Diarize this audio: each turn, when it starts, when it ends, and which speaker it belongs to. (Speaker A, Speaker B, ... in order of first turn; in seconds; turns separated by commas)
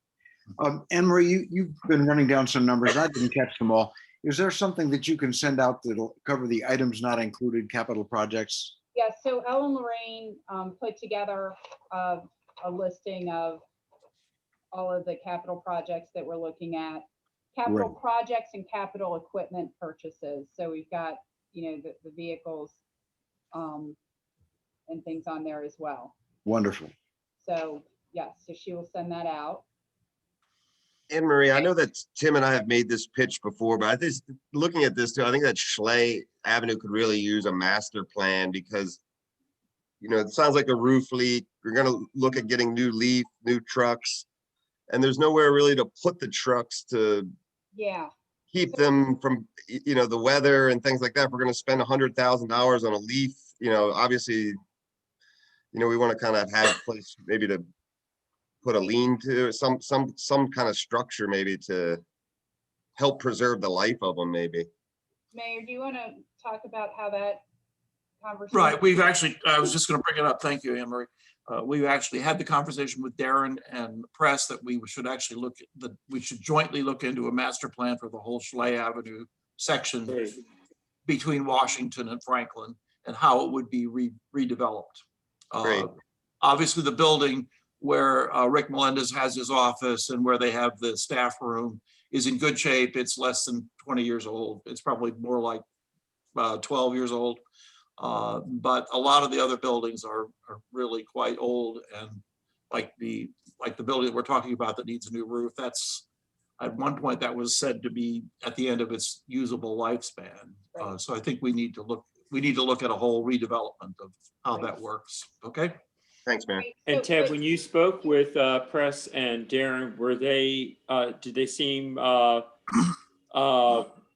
Speaker A: 0.6-8.8, Speaker B: 8.9-13.6, Speaker B: 14.7-22.8, Speaker A: 17.7-17.9, Speaker B: 23.5-24.0, Speaker B: 24.9-26.1, Speaker A: 26.4-26.9, Speaker B: 27.4-29.6, Speaker C: 31.1-39.0, Speaker C: 40.0-44.2, Speaker C: 44.9-47.3, Speaker B: 47.7-48.1, Speaker C: 48.5-54.6, Speaker C: 55.7-57.6, Speaker C: 58.6-62.0, Speaker C: 63.0-64.7, Speaker B: 65.3-67.4, Speaker B: 68.2-69.0, Speaker D: 68.5-80.3, Speaker D: 81.1-95.6, Speaker C: 85.6-85.9, Speaker D: 96.3-97.4, Speaker D: 98.0-106.1, Speaker D: 106.6-115.8, Speaker C: 116.2-116.7, Speaker B: 116.5-117.3, Speaker E: 116.9-122.5, Speaker E: 123.3-123.9